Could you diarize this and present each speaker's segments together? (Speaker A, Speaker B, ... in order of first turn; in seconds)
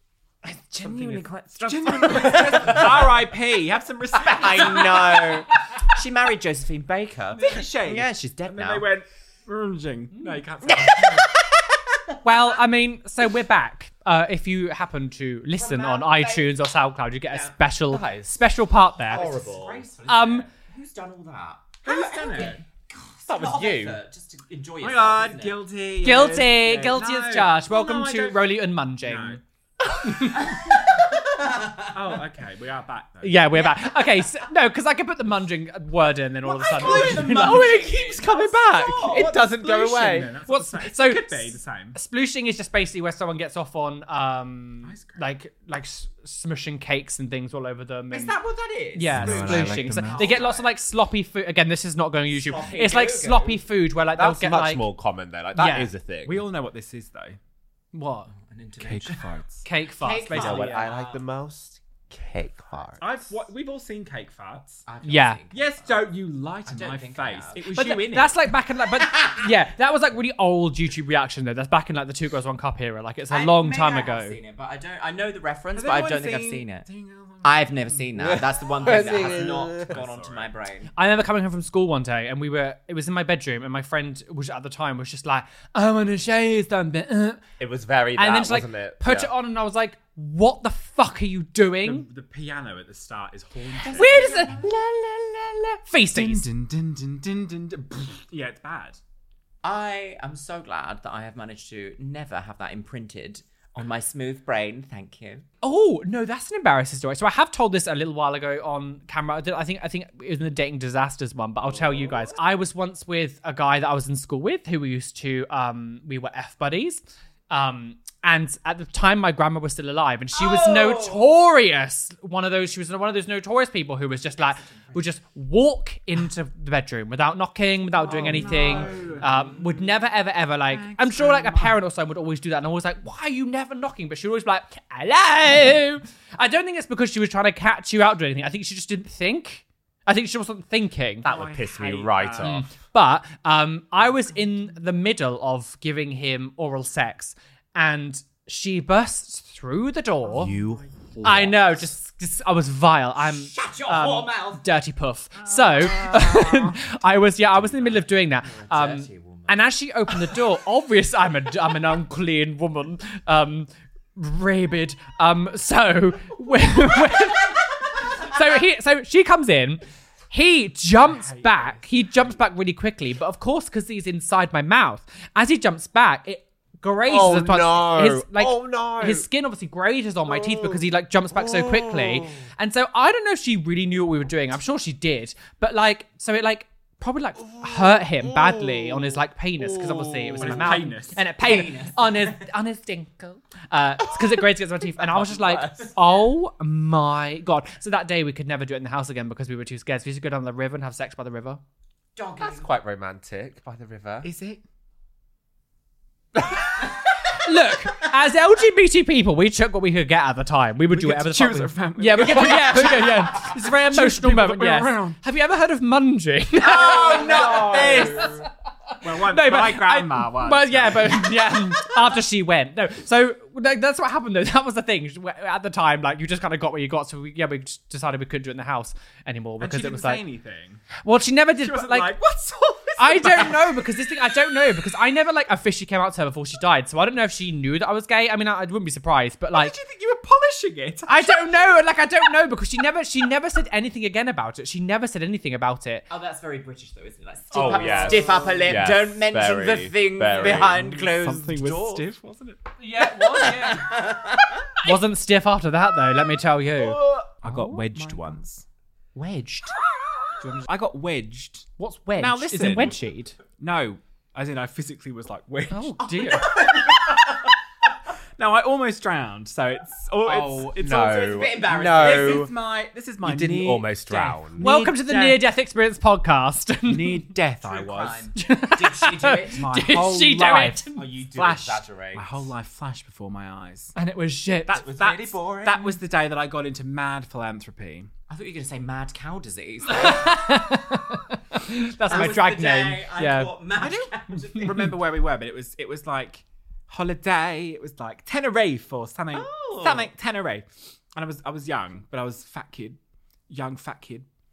Speaker A: 0.4-3.1, 4.2-8.9, 10.6-12.2, 15.6-16.5, 17.3-17.6, 19.1-25.6, 30.2-31.9, 33.5-34.2, 36.4-39.4, 48.1-50.7, 52.3-53.6, 58.3-59.2, 60.0-61.2, 64.8-66.0, 66.6-67.6, 73.3-76.8, 77.4-80.9, 93.8-94.7, 99.6-105.4, 120.3-121.2, 128.1-129.5, 153.3-154.6, 158.5-159.6, 191.4-192.4, 195.1-195.9, 202.2-202.7, 216.6-218.3, 246.1-252.1, 253.6-254.7, 266.0-267.2, 270.2-272.5, 277.6-279.6, 288.3-290.3, 292.1-294.9, 299.3-300.1
Speaker B: 0.8-5.4, 7.3-11.3, 21.8-22.6, 24.8-29.4, 31.9-33.5, 36.7-37.9, 39.0-42.0, 44.8-45.2, 49.4-50.4, 56.2-57.4, 58.8-59.7, 63.0-64.8, 65.5-68.4, 75.7-80.5, 91.8-94.3, 96.1-99.0, 128.0-129.5, 130.7-131.8, 141.2-142.6, 150.4-150.7, 155.5-156.8, 171.0-172.4, 190.4-191.2, 204.2-204.6, 210.9-215.2, 216.6-218.5, 219.0-221.6, 229.6-230.8, 231.6-233.9, 239.5-241.8, 247.6-248.7, 250.4-252.7, 256.8-258.6, 260.4-267.1, 268.4-270.9, 272.0-275.4, 276.9-278.3, 279.5-283.9, 284.7-288.1, 293.8-304.3
Speaker C: 12.2-19.3, 20.1-20.4, 26.0-29.4, 30.0-30.7, 33.2-39.4, 40.4-48.3, 48.9-54.9, 55.5-55.9, 57.9-58.3, 59.6-60.9, 65.0-65.4, 67.7-74.4, 80.9-87.4, 88.2-92.1, 93.8-96.5, 105.6-141.3, 142.4-150.5, 151.2-201.6, 207.3-218.4, 219.1-230.2, 231.0-232.1, 233.0-239.8, 241.1-246.0, 252.8-254.1, 254.8-257.0, 259.2-259.7, 261.8-263.4, 265.7-266.6, 274.6-277.3, 278.4-281.1, 283.9-284.9, 289.9-293.6, 294.6-294.9
Speaker D: 17.9-18.4, 19.1-19.8, 23.3-24.0, 39.0-40.3, 49.1-50.3, 54.1-56.4, 60.3-63.0, 78.2-80.0, 87.6-89.3, 141.2-142.7, 150.3-151.9, 177.1-179.3, 180.3-180.8, 181.3-182.3, 188.2-189.1, 189.6-190.5, 202.4-204.3, 247.5-251.0, 270.3-272.5, 273.2-274.6, 280.9-282.5, 284.7-285.8